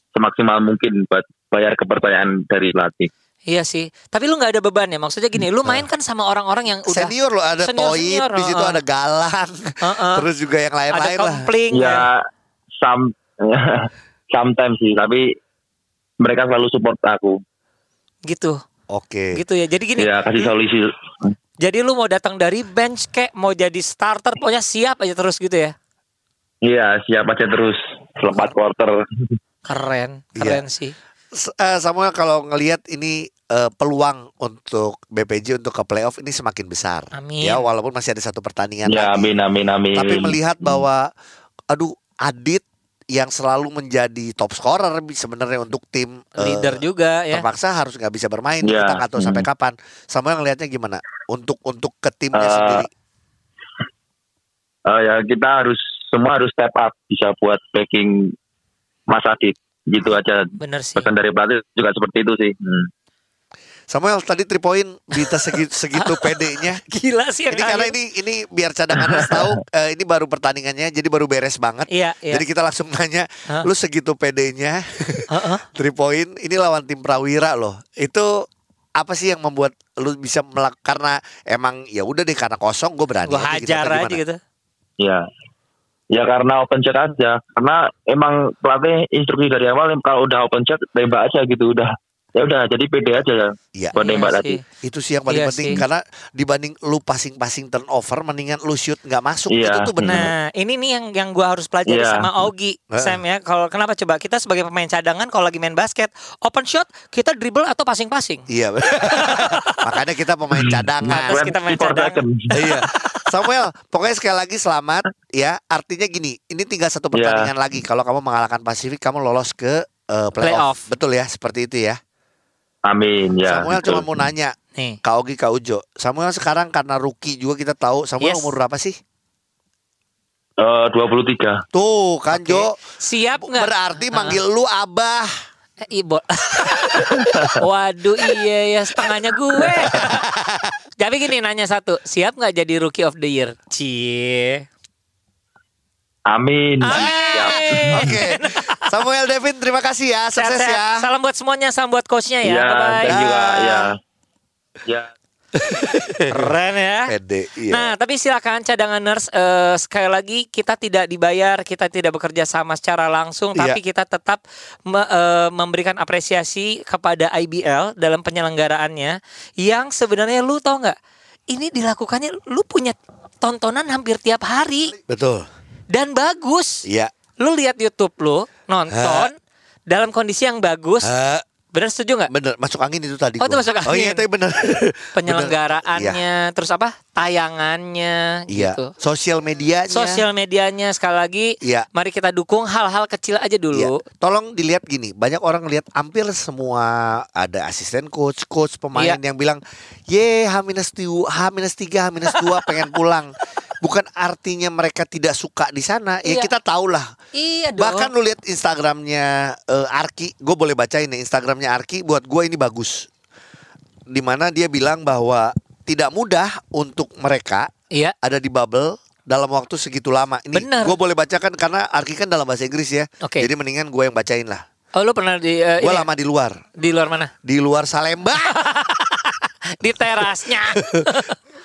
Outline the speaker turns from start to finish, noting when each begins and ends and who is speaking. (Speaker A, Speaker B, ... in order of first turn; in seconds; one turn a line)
Speaker A: 0.1-3.1
Speaker B: 3.5-7.1
Speaker C: 6.9-11.5
Speaker B: 7.6-8.8
Speaker B: 9.8-10.3
Speaker B: 10.9-12.1
Speaker A: 11.7-12.2
Speaker A: 12.8-15.3
Speaker A: 16.2-17.4
Speaker B: 18.3-18.6
Speaker C: 18.9-19.4
Speaker B: 19.3-20.5
Speaker A: 20.0-21.0
Speaker B: 21.6-25.8
Speaker A: 26.6-29.0
Speaker B: 29.7-31.0
Speaker C: 30.4-30.6
Speaker C: 31.3-39.3
Speaker B: 37.1-37.6
Speaker A: 38.9-40.8
Speaker C: 39.9-41.1
Speaker C: 41.7-52.9
Speaker B: 46.4-47.5
Speaker A: 48.6-49.5
Speaker A: 52.3-52.9
Speaker A: 54.9-58.4
Speaker A: 59.1-62.9
Speaker B: 60.6-61.1
Speaker C: 63.9-66.8
Speaker B: 65.2-67.9
Speaker C: 67.5-84.2
Speaker B: 71.9-72.4
Speaker B: 75.3-75.6
Speaker B: 83.3-84.4
Speaker A: 85.0-85.3
Speaker A: 86.1-94.5
Speaker B: 93.9-94.6
Speaker C: 94.8-100.3
Speaker B: 95.3-95.8
Speaker A: 99.5-100.3
Speaker B: 100.0-108.5
Speaker A: 101.9-102.3
Speaker C: 102.9-103.2
Speaker C: 108.5-111.4
Speaker B: 109.1-109.8
Speaker A: 110.5-112.6
Speaker B: 111.0-112.8
Speaker C: 112.5-122.0
Speaker A: 117.1-117.5
Speaker B: 120.4-120.8
Speaker A: 122.9-124.1
Speaker C: 123.5-129.0
Speaker B: 128.2-128.6
Speaker A: 130.6-131.6
Speaker C: 131.7-132.8
Speaker B: 132.3-134.4
Speaker C: 133.4-135.3
Speaker B: 135.8-140.3
Speaker A: 137.2-137.6
Speaker C: 139.6-140.7
Speaker B: 141.0-144.7
Speaker A: 146.3-148.1
Speaker B: 146.8-148.9
Speaker C: 146.9-151.1
Speaker B: 150.4-153.9
Speaker A: 152.4-153.9
Speaker C: 153.1-153.5
Speaker A: 154.8-155.1
Speaker C: 155.6-156.5
Speaker B: 156.3-157.1
Speaker C: 157.1-157.9
Speaker B: 157.7-171.0
Speaker B: 171.5-175.0
Speaker C: 175.1-175.5
Speaker B: 175.9-176.9
Speaker C: 176.9-177.1
Speaker B: 177.4-179.3
Speaker C: 178.9-179.3
Speaker B: 179.9-181.1
Speaker C: 181.0-181.4
Speaker B: 181.7-182.3
Speaker C: 182.3-186.2
Speaker B: 183.4-184.2
Speaker B: 185.2-188.9
Speaker C: 188.5-190.2
Speaker B: 189.9-194.0
Speaker C: 193.7-207.1
Speaker B: 206.2-206.5
Speaker B: 207.3-208.1
Speaker C: 207.8-213.1
Speaker C: 214.1-217.7
Speaker C: 218.2-224.6
Speaker B: 220.5-220.9
Speaker B: 223.2-223.5
Speaker B: 224.9-226.1
Speaker C: 225.8-226.7
Speaker B: 226.8-227.3
Speaker C: 227.4-228.6
Speaker B: 228.6-231.4
Speaker C: 230.2-231.1